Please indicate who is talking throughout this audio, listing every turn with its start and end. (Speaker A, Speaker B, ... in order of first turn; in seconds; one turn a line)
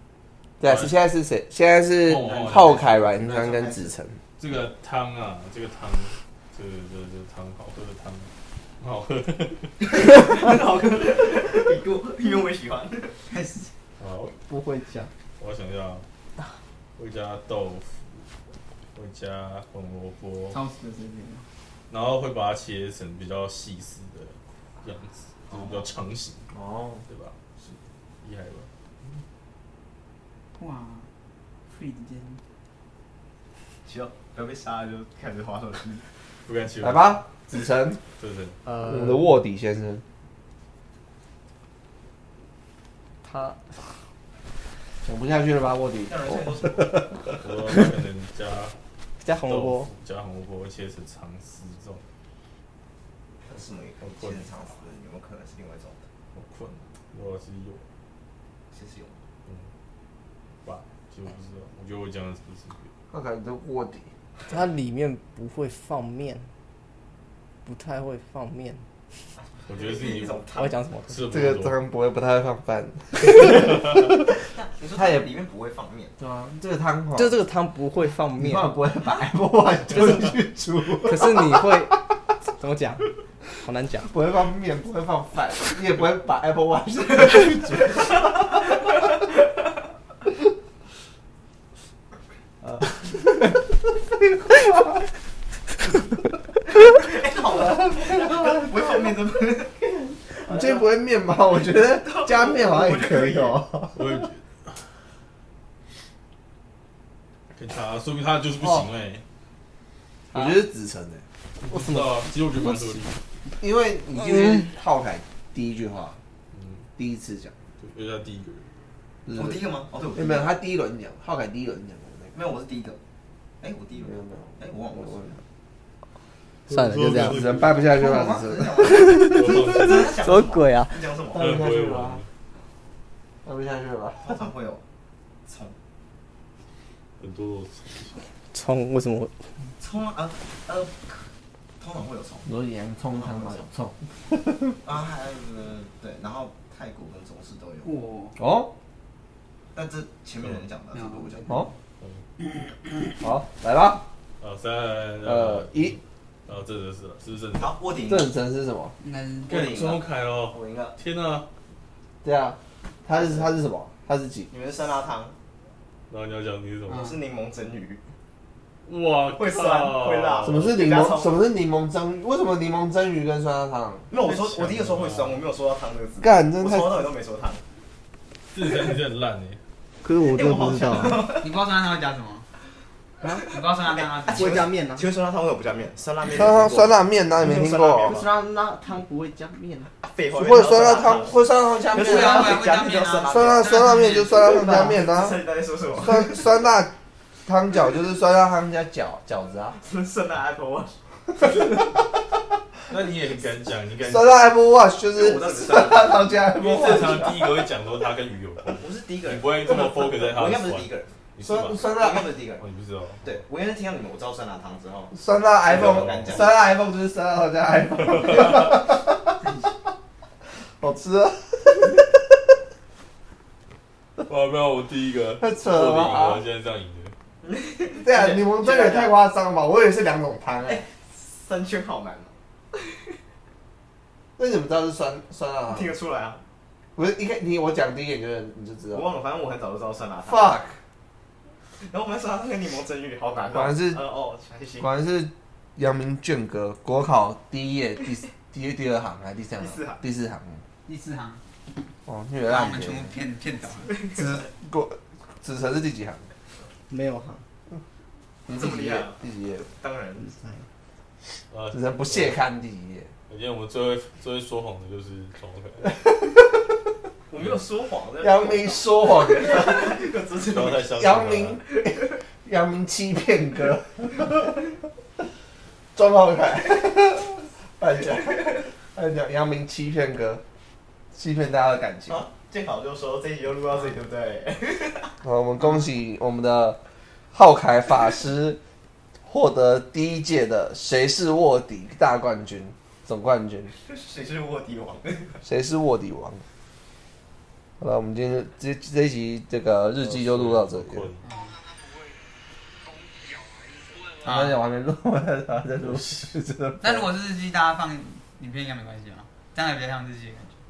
Speaker A: 0.6-4.2
Speaker B: 0.6-1.0
Speaker B: 2.0-3.0
Speaker C: 2.5-3.9
Speaker B: 4.4-9.9
Speaker C: 9.8-13.2
Speaker D: 13.3-13.7
Speaker B: 14.0-14.3
Speaker E: 14.3-15.1
Speaker B: 15.4-16.0
Speaker B: 16.9-18.2
Speaker B: 18.9-20.6
Speaker D: 20.5-21.4
Speaker B: 21.9-26.5
Speaker C: 25.5-25.9
Speaker A: 26.5-27.0
Speaker B: 27.1-27.4
Speaker B: 28.2-28.7
Speaker D: 30.6-31.1
Speaker D: 31.7-32.4
Speaker C: 33.8-36.0
Speaker B: 36.4-37.2
Speaker A: 36.8-38.0
Speaker B: 38.2-38.6
Speaker E: 38.6-39.2
Speaker A: 38.8-40.0
Speaker E: 43.2-43.8
Speaker A: 45.0-47.3
Speaker C: 46.1-47.0
Speaker B: 47.4-48.7
Speaker E: 49.2-49.9
Speaker B: 49.4-52.0
Speaker C: 53.4-56.0
Speaker B: 54.0-54.5
Speaker B: 56.3-57.8
Speaker C: 58.7-59.2
Speaker B: 60.6-62.9
Speaker A: 63.1-64.1
Speaker E: 64.5-66.4
Speaker E: 67.6-68.8
Speaker C: 69.4-70.8
Speaker B: 69.7-70.5
Speaker E: 70.5-71.4
Speaker B: 71.0-71.8
Speaker A: 71.3-74.1
Speaker C: 74.5-76.1
Speaker A: 75.0-75.3
Speaker A: 76.2-77.3
Speaker E: 77.2-78.7
Speaker A: 78.4-81.8
Speaker E: 81.0-82.0
Speaker E: 82.6-83.1
Speaker E: 83.6-84.1
Speaker A: 84.0-88.4
Speaker A: 94.0-95.0
Speaker C: 96.9-103.6
Speaker A: 97.7-98.6
Speaker A: 100.5-104.0
Speaker B: 103.9-104.8
Speaker B: 107.5-109.2
Speaker A: 110.3-111.2
Speaker B: 111.6-113.2
Speaker E: 111.7-112.0
Speaker A: 113.6-116.2
Speaker B: 116.5-116.8
Speaker A: 117.0-117.5
Speaker B: 117.8-118.7
Speaker A: 119.2-122.3
Speaker C: 119.3-120.5
Speaker C: 122.3-123.0
Speaker C: 123.6-125.4
Speaker A: 124.0-125.4
Speaker E: 126.7-127.5
Speaker B: 126.7-127.8
Speaker A: 127.2-129.0
Speaker C: 127.9-131.5
Speaker E: 128.8-131.0
Speaker B: 129.0-130.1
Speaker A: 131.3-132.2
Speaker B: 131.3-132.2
Speaker A: 133.4-134.4
Speaker C: 134.2-134.8
Speaker C: 135.4-135.7
Speaker B: 137.2-138.2
Speaker E: 138.5-139.3
Speaker C: 139.8-141.3
Speaker C: 141.8-142.5
Speaker A: 142.4-144.8
Speaker C: 143.1-143.7
Speaker C: 144.8-147.9
Speaker D: 147.8-148.4
Speaker A: 148.4-148.7
Speaker C: 149.7-151.6
Speaker D: 150.9-151.7
Speaker D: 152.4-153.2
Speaker A: 153.2-154.0
Speaker B: 154.4-157.7
Speaker A: 155.2-155.9
Speaker C: 157.5-158.3
Speaker A: 158.1-158.9
Speaker D: 159.0-159.5
Speaker C: 159.5-160.9
Speaker B: 159.5-161.4
Speaker A: 162.2-164.5
Speaker C: 163.1-163.5
Speaker C: 164.5-165.3
Speaker B: 166.1-167.1
Speaker D: 166.9-167.2
Speaker C: 166.9-168.0
Speaker B: 168.8-170.8
Speaker C: 169.3-171.4
Speaker A: 170.4-174.1
Speaker C: 174.1-177.6
Speaker B: 174.2-175.4
Speaker A: 176.2-177.1
Speaker B: 178.5-179.6
Speaker E: 180.0-181.3
Speaker C: 180.2-181.5
Speaker D: 181.4-182.4
Speaker D: 183.5-184.7
Speaker C: 184.2-188.3
Speaker E: 184.3-185.1
Speaker A: 186.3-188.2
Speaker E: 188.0-189.9
Speaker C: 190.0-196.5
Speaker A: 190.3-192.6
Speaker D: 191.9-194.6
Speaker A: 193.3-195.4
Speaker A: 196.0-196.9
Speaker A: 197.4-199.8
Speaker C: 199.8-200.9
Speaker B: 202.9-204.4
Speaker A: 204.1-207.6
Speaker C: 205.1-207.3
Speaker B: 206.6-211.8
Speaker C: 208.8-212.6
Speaker A: 211.4-212.3
Speaker B: 212.6-213.4
Speaker C: 213.2-215.1
Speaker A: 215.1-219.4
Speaker C: 215.6-216.6
Speaker B: 215.7-216.5
Speaker A: 220.8-222.2
Speaker B: 224.2-227.1
Speaker A: 225.4-226.4
Speaker C: 227.4-229.1
Speaker A: 227.9-230.8
Speaker C: 230.7-232.3
Speaker A: 234.4-235.9
Speaker C: 235.7-236.4
Speaker A: 236.9-239.1
Speaker C: 238.9-240.6
Speaker A: 240.3-240.8
Speaker C: 241.8-244.9
Speaker A: 243.5-244.0
Speaker A: 244.8-250.6
Speaker C: 249.6-250.0
Speaker D: 250.8-251.4
Speaker A: 252.1-253.1
Speaker D: 252.4-254.1
Speaker A: 254.1-256.2
Speaker E: 256.9-257.4
Speaker D: 258.5-259.0
Speaker C: 258.5-259.2
Speaker A: 259.2-259.7
Speaker C: 259.7-260.3
Speaker B: 261.5-262.4
Speaker A: 261.7-263.1
Speaker B: 263.3-265.9
Speaker C: 267.3-271.1
Speaker B: 267.4-267.6
Speaker A: 268.2-269.9
Speaker B: 270.4-271.6
Speaker A: 271.0-274.6
Speaker C: 271.7-272.1
Speaker A: 275.9-280.4
Speaker A: 281.1-282.2
Speaker C: 282.1-285.1
Speaker A: 285.2-286.8
Speaker A: 287.3-288.6
Speaker A: 289.2-293.7
Speaker C: 293.9-295.4
Speaker A: 295.4-296.4
Speaker A: 297.8-301.1
Speaker B: 300.0-301.2
Speaker D: 301.3-301.6
Speaker D: 304.2-304.6
Speaker A: 304.2-307.1
Speaker B: 305.8-306.3
Speaker D: 306.8-310.6